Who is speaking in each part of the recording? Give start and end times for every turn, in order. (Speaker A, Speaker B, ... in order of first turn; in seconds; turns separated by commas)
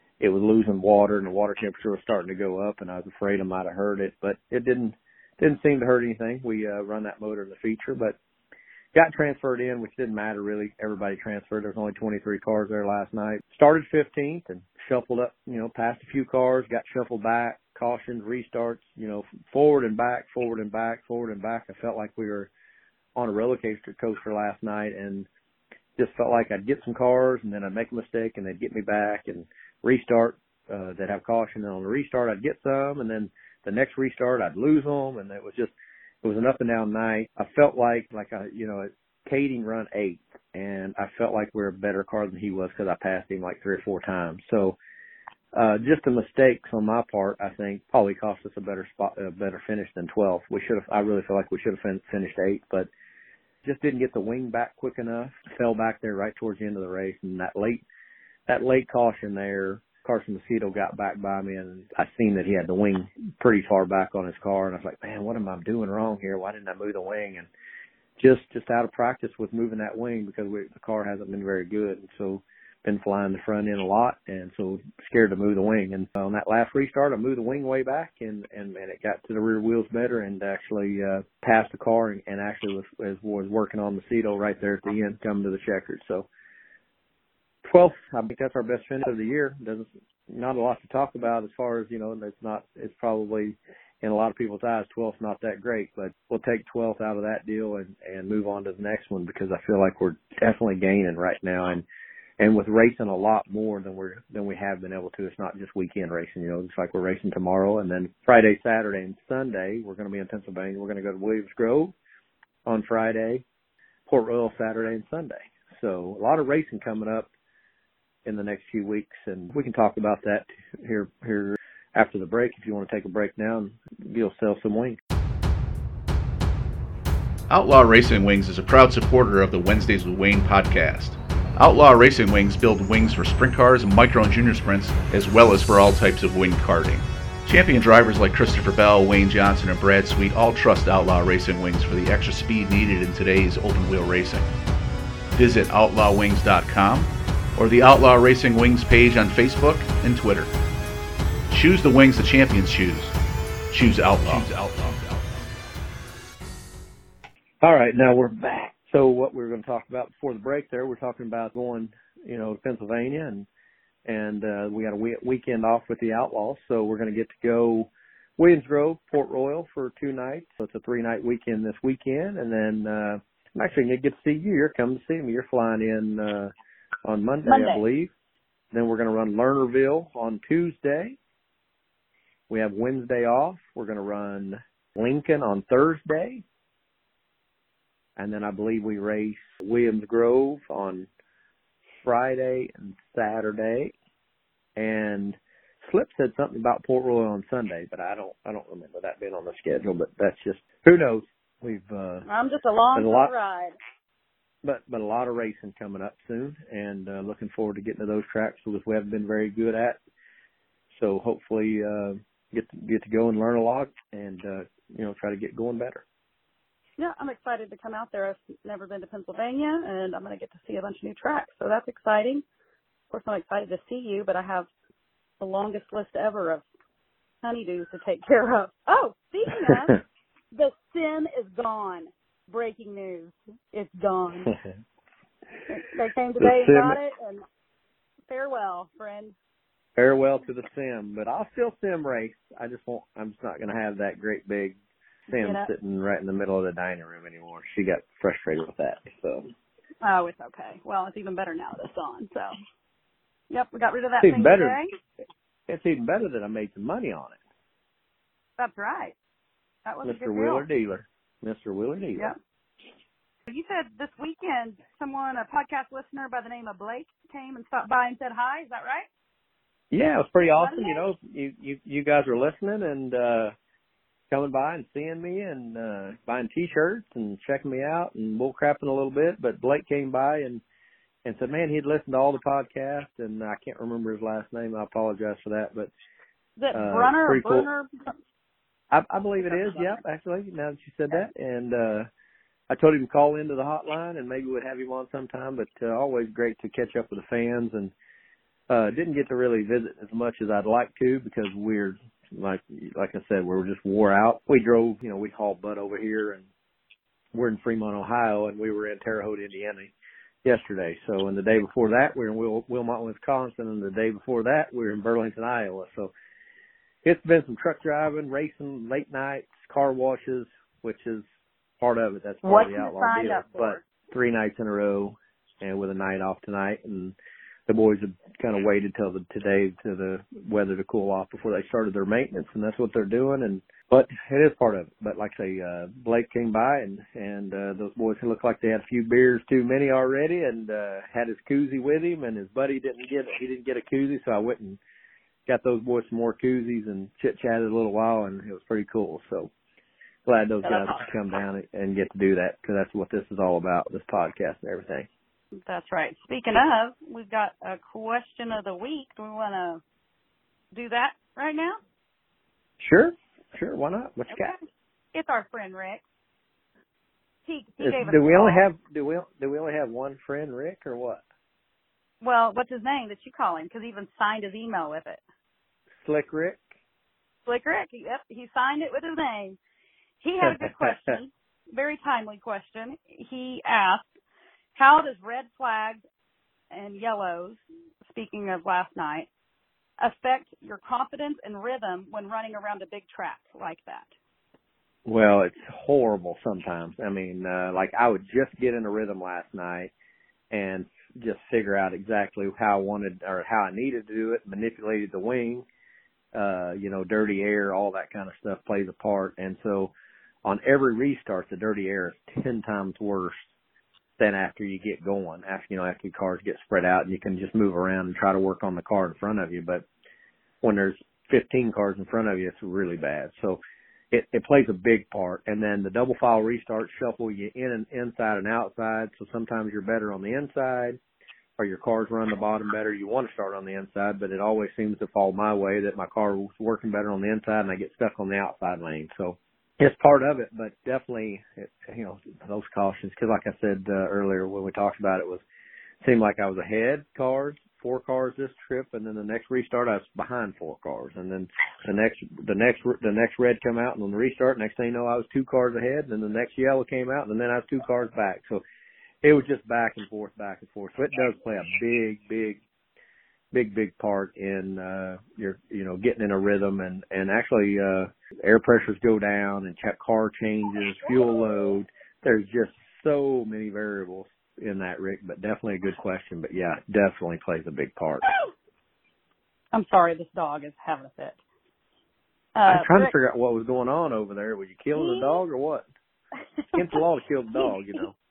Speaker A: 0.2-8.2, Speaker A: 8.9-22.5, Speaker A: 23.2-25.3, Speaker A: 26.0-44.8, Speaker A: 45.5-52.9, Speaker A: 53.6-57.9, Speaker A: 58.5-67.5, Speaker A: 68.2-86.3, Speaker A: 87.7-101.8, Speaker A: 102.4-112.0, Speaker A: 112.7-113.4, Speaker A: 114.1-117.3, Speaker A: 118.2-125.0, Speaker B: 127.5-144.5, Speaker B: 145.3-150.5, Speaker B: 151.5-153.1, Speaker B: 153.7-155.2, Speaker A: 157.6-163.5, Speaker A: 164.1-176.5, Speaker A: 177.1-178.1, Speaker C: 177.4-177.8, Speaker A: 178.7-181.2, Speaker A: 182.5-186.4, Speaker A: 188.2-191.1, Speaker A: 192.0-193.9, Speaker A: 194.8-202.3, Speaker C: 202.3-203.8, Speaker A: 202.9-203.3, Speaker A: 204.6-210.0, Speaker A: 210.9-216.1, Speaker C: 217.0-222.4, Speaker C: 223.1-224.7, Speaker C: 225.4-226.7, Speaker C: 227.4-230.0, Speaker A: 229.7-230.0, Speaker C: 230.5-234.5, Speaker C: 235.7-237.4, Speaker A: 236.4-237.0, Speaker C: 238.3-239.3, Speaker A: 240.0-249.5, Speaker C: 245.3-245.7, Speaker C: 250.0-252.5, Speaker C: 253.5-254.9, Speaker A: 254.2-254.8, Speaker A: 255.7-257.4, Speaker C: 258.6-259.2, Speaker C: 259.9-260.7, Speaker A: 260.0-262.3, Speaker C: 263.5-269.1, Speaker A: 269.9-273.5, Speaker C: 270.6-271.0, Speaker A: 274.3-280.6, Speaker A: 281.2-285.9, Speaker C: 286.6-288.1, Speaker A: 286.7-287.7, Speaker A: 288.9-292.1, Speaker C: 289.4-290.0, Speaker A: 292.7-297.9, Speaker A: 298.7-306.5, Speaker A: 307.3-309.9, Speaker A: 310.4-316.1, Speaker A: 317.0-321.2, Speaker A: 321.8-327.2, Speaker C: 322.4-323.8, Speaker A: 327.7-344.8, Speaker A: 345.5-349.5, Speaker A: 350.3-355.1, Speaker C: 350.6-351.1, Speaker C: 355.7-359.8, Speaker C: 360.7-361.8, Speaker A: 362.8-364.6, Speaker C: 365.1-366.0, Speaker C: 367.5-368.6, Speaker A: 367.8-371.2, Speaker C: 372.2-375.2, Speaker A: 376.0-376.6, Speaker C: 377.5-379.6, Speaker C: 380.2-384.1, Speaker A: 380.4-381.1, Speaker C: 384.8-386.0, Speaker C: 386.7-389.3, Speaker C: 390.0-394.1, Speaker A: 395.1-399.9, Speaker A: 400.5-405.7, Speaker A: 406.3-409.9, Speaker A: 410.4-413.4, Speaker A: 414.2-419.9, Speaker A: 420.6-423.6, Speaker A: 424.1-431.0, Speaker A: 431.6-445.4, Speaker A: 446.0-458.6, Speaker A: 459.2-462.6, Speaker A: 463.5-478.3, Speaker C: 479.7-481.4, Speaker C: 482.6-483.1, Speaker A: 482.7-485.9, Speaker C: 484.9-485.4, Speaker C: 486.7-487.0, Speaker A: 486.8-488.1